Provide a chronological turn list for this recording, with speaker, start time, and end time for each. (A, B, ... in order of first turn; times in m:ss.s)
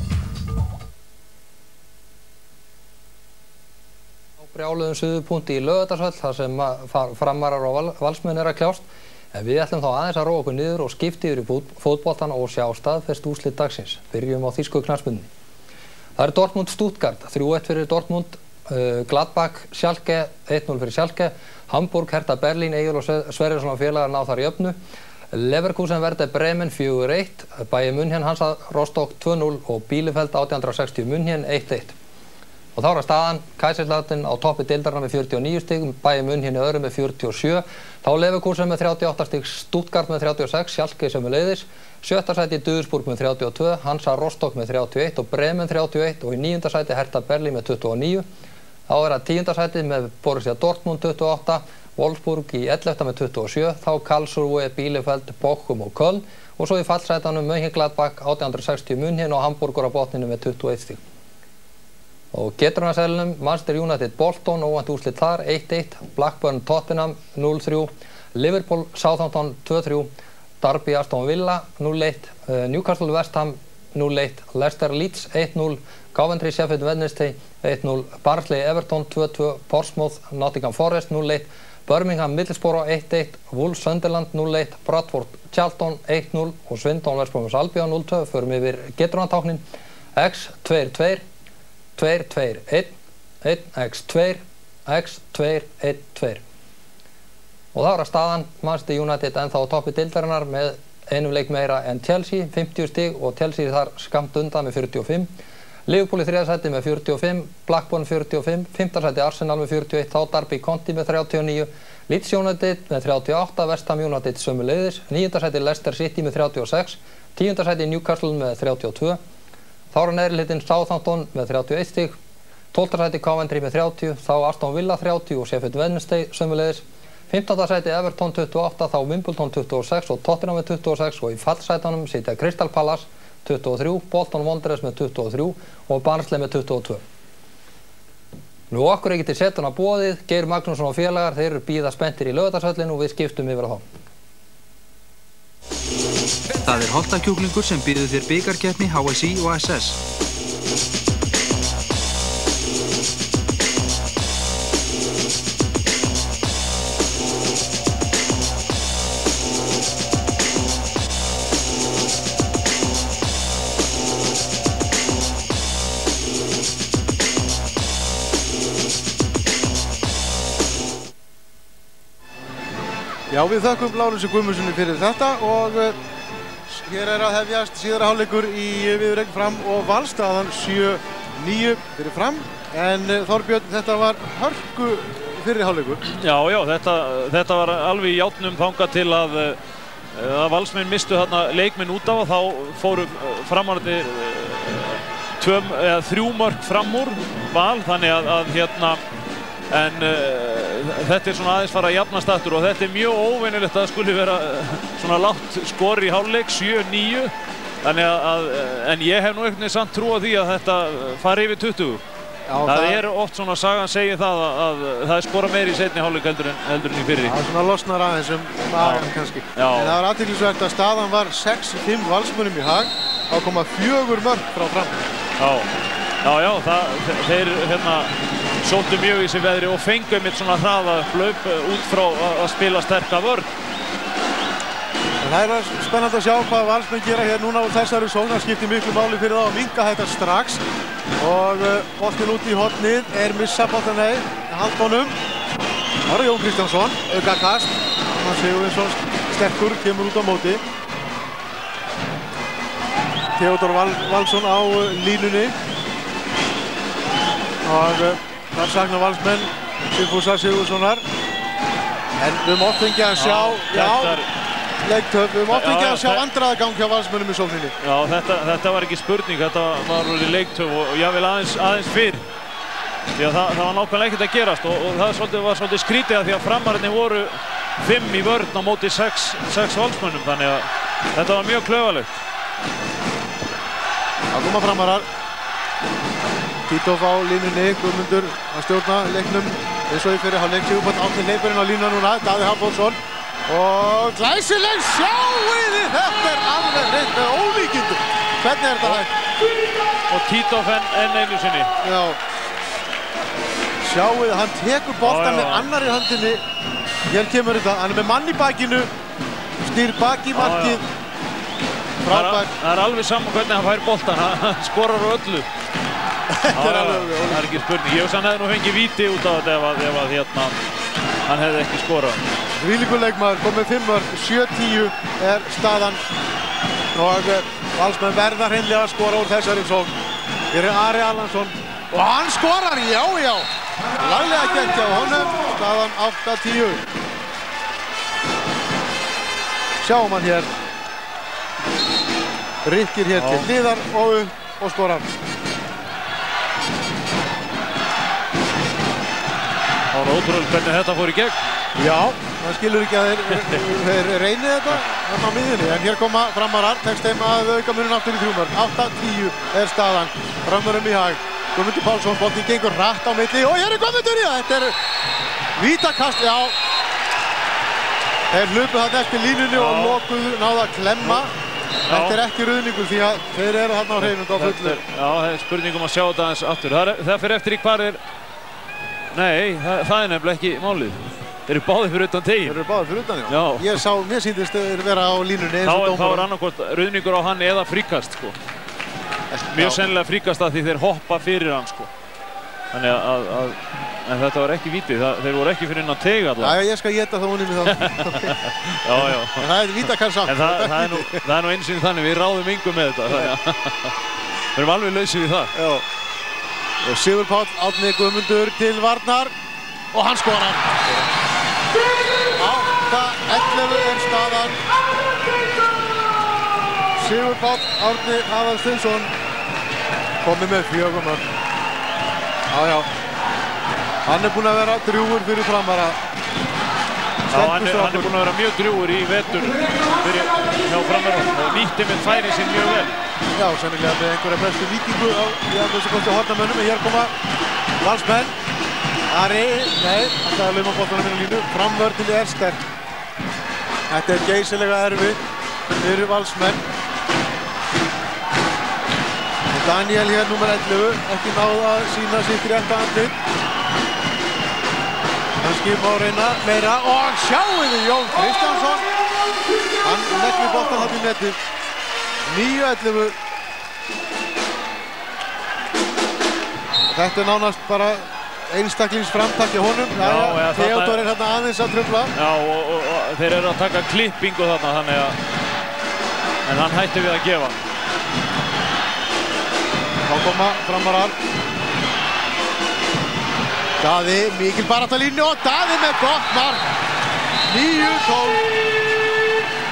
0:04.4-0:15.3 A
0:16.2-0:24.8 A
0:25.3-0:32.0 A
0:32.8-0:48.2 A
0:48.9-1:01.0 A
1:02.3-1:10.1 A
1:10.6-1:29.6 A
1:30.2-1:31.2 A
1:32.0-1:32.9 A
1:33.4-1:36.4 A
1:37.7-1:45.3 A
1:45.9-1:59.2 A
1:59.9-2:02.2 A
2:02.7-2:17.0 A
2:18.7-2:23.8 A
2:26.6-2:30.0 B
2:53.3-2:56.0 C
2:56.7-3:06.0 C
3:06.2-3:09.6 D
3:10.1-3:19.0 D
3:19.7-3:27.3 D
3:27.8-3:32.0 D
3:32.5-3:33.0 C
3:32.6-3:37.4 D
3:37.2-3:45.0 C
3:38.8-3:40.0 D
3:45.4-3:45.7 D
3:46.2-3:53.5 D
3:55.2-4:00.6 C
4:01.2-4:05.2 C
4:06.1-4:10.6 C
4:13.4-4:15.6 C
4:17.6-4:21.0 C
4:22.2-4:24.2 C
4:23.2-4:24.3 D
4:24.8-4:27.7 C
4:25.5-4:26.2 D
4:27.8-4:32.2 D
4:33.1-4:42.2 D
4:44.3-4:45.1 C
4:46.7-4:59.1 C
5:00.1-5:01.7 D
5:01.8-5:02.2 C
5:03.8-5:06.4 C
5:05.0-5:05.7 D
5:07.1-5:08.9 C
5:09.6-5:10.8 C
5:10.3-5:10.8 D
5:12.0-5:12.5 C
5:12.1-5:15.5 D
5:16.3-5:17.5 C
5:16.5-5:20.6 D
5:21.3-5:22.2 D
5:22.6-5:26.0 C
5:27.0-5:29.9 C
5:30.5-5:36.8 C
5:39.8-5:40.5 C
5:42.6-5:45.1 C
5:43.1-5:43.5 D
5:49.9-5:51.4 D
5:51.8-6:04.8 C
5:53.3-5:53.6 D
6:05.6-6:06.6 C
6:08.3-6:11.3 C
6:09.5-6:10.0 D
6:11.9-6:12.2 D
6:11.9-6:14.8 C
6:14.0-6:18.0 D
6:19.1-6:22.6 D
6:22.4-6:26.3 C
6:23.3-6:23.8 D
6:25.6-6:28.4 D
6:29.3-6:29.8 C
6:29.5-6:31.9 D
6:32.7-6:36.6 D
6:36.4-6:38.4 C
6:37.7-6:39.5 D
6:38.9-6:41.2 C
6:40.2-6:44.0 D
6:43.1-6:43.3 C
6:44.6-6:45.5 D
6:45.6-6:45.8 C
6:46.8-6:49.3 C
6:49.9-6:51.1 C
6:52.4-6:54.6 C
6:57.0-6:59.1 C
7:00.2-7:01.2 C
7:02.5-7:02.9 C
7:04.1-7:06.0 C
7:07.3-7:08.1 C
7:07.3-7:13.0 D
7:13.4-7:17.1 C
7:17.8-7:18.3 C
7:19.1-7:22.6 C
7:23.9-7:25.2 C
7:25.7-7:26.6 C
7:29.5-7:33.2 C
7:35.4-7:38.8 C
7:39.8-7:41.4 C
7:42.3-7:43.1 C
7:46.9-7:52.1 C
7:50.0-7:51.0 D
7:52.1-7:55.2 D
7:56.5-7:57.6 D
8:00.1-8:01.1 C
8:03.8-8:06.7 C
8:07.5-8:08.4 C